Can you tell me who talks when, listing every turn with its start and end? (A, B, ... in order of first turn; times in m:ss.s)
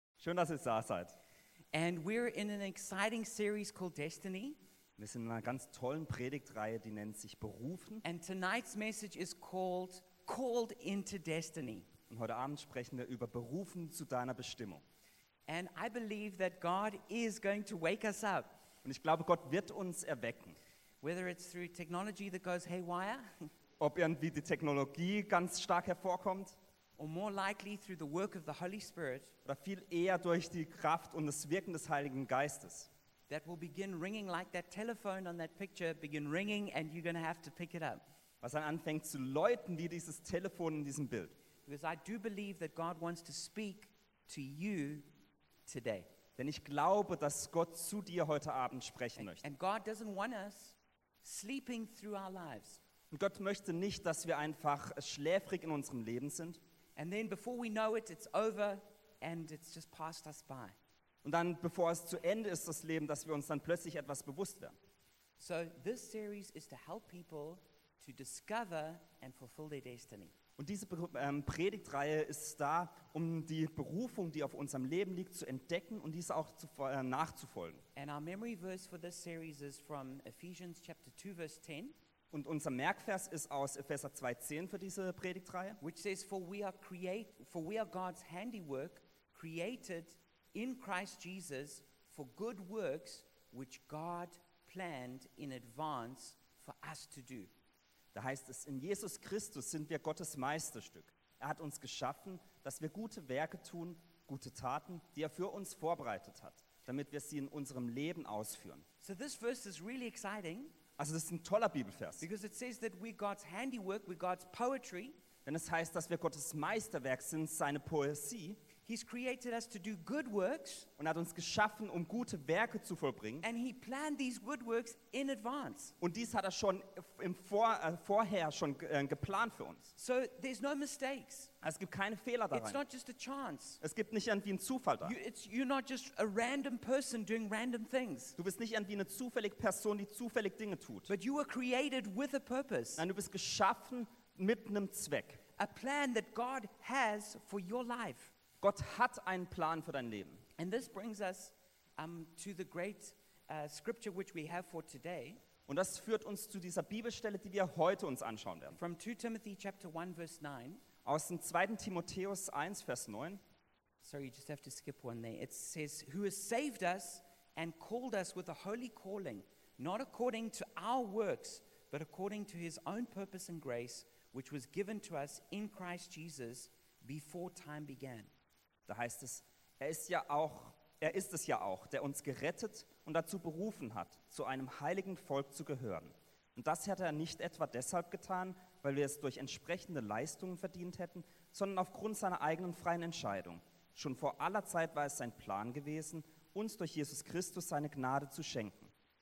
0:00.2-0:01.1 A
0:01.7-0:04.6 B
0:05.0-0:08.0 A
0:08.0-0:11.9 B
0:12.1-0:14.8 A
0:15.5-0:18.5 B
0:18.8-0:20.6 A
0:21.0-0:23.5 B
0:23.8-0:26.6 A
0:27.0-0:29.3 B
0:29.4-0:32.9 A
0:33.3-0:38.0 B
0:38.4-0:41.4 A
0:41.7-0:45.1 B
0:45.7-0:46.1 B
0:46.4-0:49.4 A
0:49.2-0:52.8 B
0:53.1-0:56.6 A
0:57.0-1:00.8 B
1:01.2-1:04.8 A
1:05.4-1:10.3 B
1:10.6-1:17.8 A
1:18.0-1:22.0 B
1:22.3-1:25.8 A
1:25.8-1:37.5 B
1:38.1-1:48.8 A
1:49.0-1:50.8 B
1:51.0-1:52.2 A
1:52.2-1:55.2 B
1:55.4-1:58.6 A
1:58.8-2:00.9 B
2:01.0-2:03.4 A
2:03.4-2:06.0 B
2:06.0-2:09.9 A
2:10.0-2:11.5 B
2:11.6-2:12.8 A
2:12.5-2:13.8 B
2:13.8-2:15.2 A
2:15.0-2:18.4 B
2:18.4-2:21.1 A
2:21.1-2:23.0 B
2:23.0-2:25.4 A
2:25.6-2:28.3 B
2:28.6-2:30.4 A
2:30.6-2:35.4 B
2:35.7-2:38.8 A
2:38.8-2:40.8 B
2:41.0-2:43.4 A
2:44.0-2:58.3 B
2:58.9-3:18.9 A